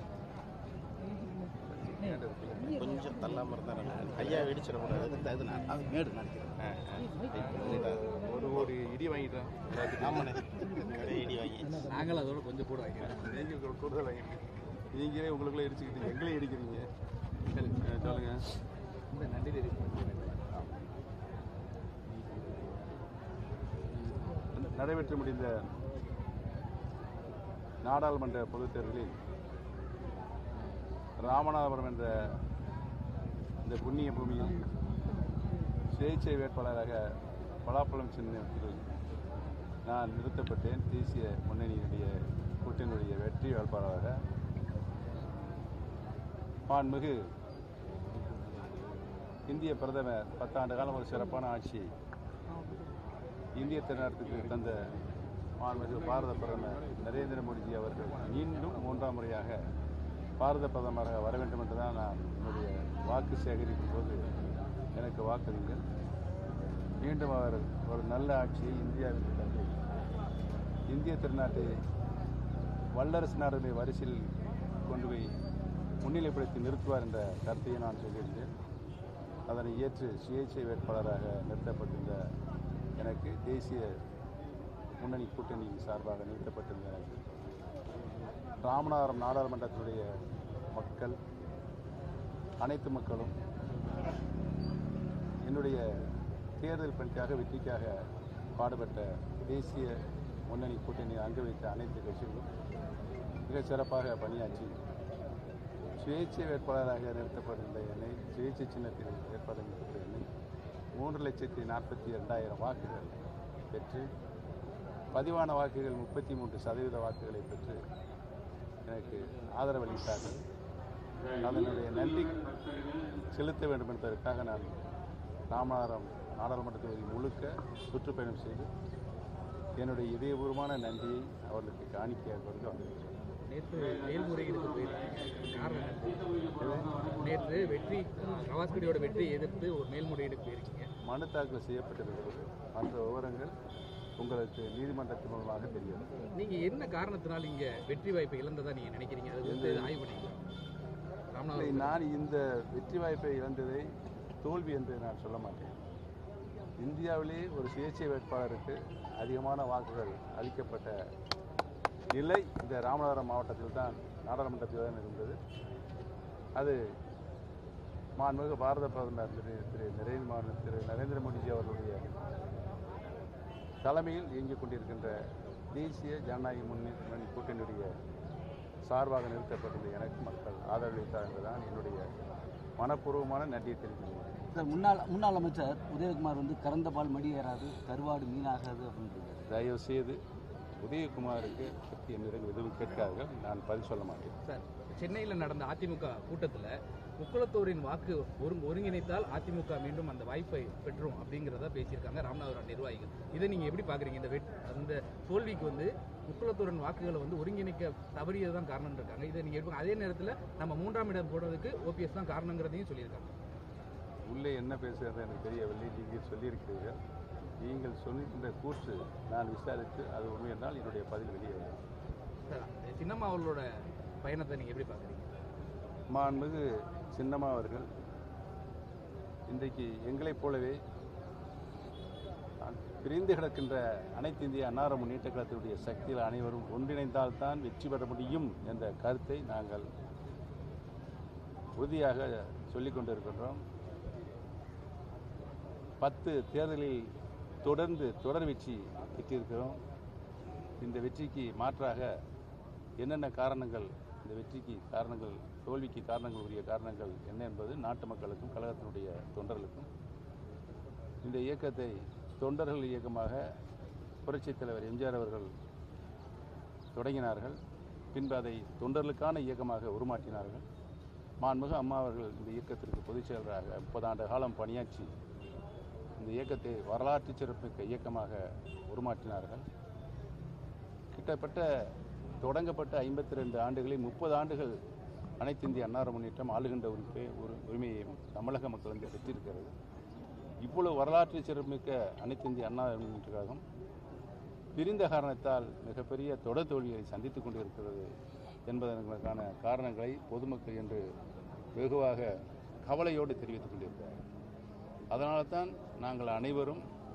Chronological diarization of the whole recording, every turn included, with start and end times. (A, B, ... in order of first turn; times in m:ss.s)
0:01.6-0:02.8 A
0:02.7-0:08.1 B
0:04.2-0:04.5 A
0:06.6-0:10.5 A
0:10.0-0:11.8 B
0:11.8-0:13.2 C
0:13.0-0:14.4 A
0:14.9-0:16.9 A
0:17.5-0:17.9 C
0:17.6-0:18.4 A
0:19.1-0:20.8 C
0:24.5-0:25.5 A
0:27.8-0:29.2 A
0:31.2-0:32.3 A
0:33.6-0:34.6 A
0:35.9-0:37.0 A
0:37.7-0:38.8 A
0:39.9-0:44.2 A
0:46.7-0:47.2 A
0:49.5-0:51.9 A
0:53.6-0:54.8 A
0:55.6-0:59.6 A
1:00.4-1:04.3 A
1:05.0-1:05.8 A
1:07.0-1:09.8 A
1:10.9-1:11.7 A
1:13.0-1:14.3 A
1:14.8-1:15.3 A
1:16.0-1:18.5 A
1:19.5-1:22.2 A
1:23.0-1:23.9 A
1:25.0-1:27.2 A
1:28.6-1:30.1 A
1:30.7-1:31.2 A
1:32.6-1:33.4 A
1:35.5-1:35.8 A
1:36.6-1:38.0 A
1:38.6-1:40.0 A
1:40.5-1:42.5 A
1:43.5-1:44.8 A
1:46.0-1:50.2 A
1:51.0-1:53.2 A
1:53.7-1:54.1 A
1:55.1-1:57.8 A
1:58.9-2:00.4 A
2:01.4-2:02.5 A
2:03.3-2:04.8 A
2:05.5-2:08.7 A
2:09.8-2:13.1 A
2:13.5-2:20.9 C
2:16.6-2:16.9 A
2:21.0-2:23.5 A
2:24.2-2:26.1 A
2:26.3-2:30.4 C
2:29.4-2:30.0 A
2:31.3-2:32.0 C
2:31.5-2:33.9 A
2:34.4-2:35.8 A
2:36.8-2:41.0 A
2:42.1-2:45.4 A
2:48.2-2:52.0 A
2:53.8-2:55.2 A
2:55.7-2:57.9 A
2:58.9-3:02.0 A
3:02.8-3:04.5 A
3:04.6-3:09.5 D
3:09.5-3:10.2 A
3:10.8-3:14.4 A
3:14.5-3:33.4 C
3:34.3-3:37.0 A
3:37.6-3:41.8 A
3:42.5-3:45.3 C
3:46.1-3:47.9 A
3:49.5-3:50.8 A
3:52.6-3:59.9 A
4:01.8-4:03.6 A
4:06.0-4:07.1 A
4:07.6-4:09.8 A
4:10.8-4:12.1 A
4:13.0-4:19.9 A
4:21.2-4:23.4 A
4:24.3-4:25.5 A
4:26.9-4:27.6 A
4:28.1-4:30.6 A
4:31.4-4:35.1 A
4:36.2-4:39.6 A
4:41.1-4:44.8 A
4:45.4-4:49.7 A
4:50.6-4:53.6 A
4:54.8-4:58.1 A
4:58.7-5:01.1 A
5:01.8-5:02.3 A
5:02.9-5:04.2 A
5:05.1-5:06.8 A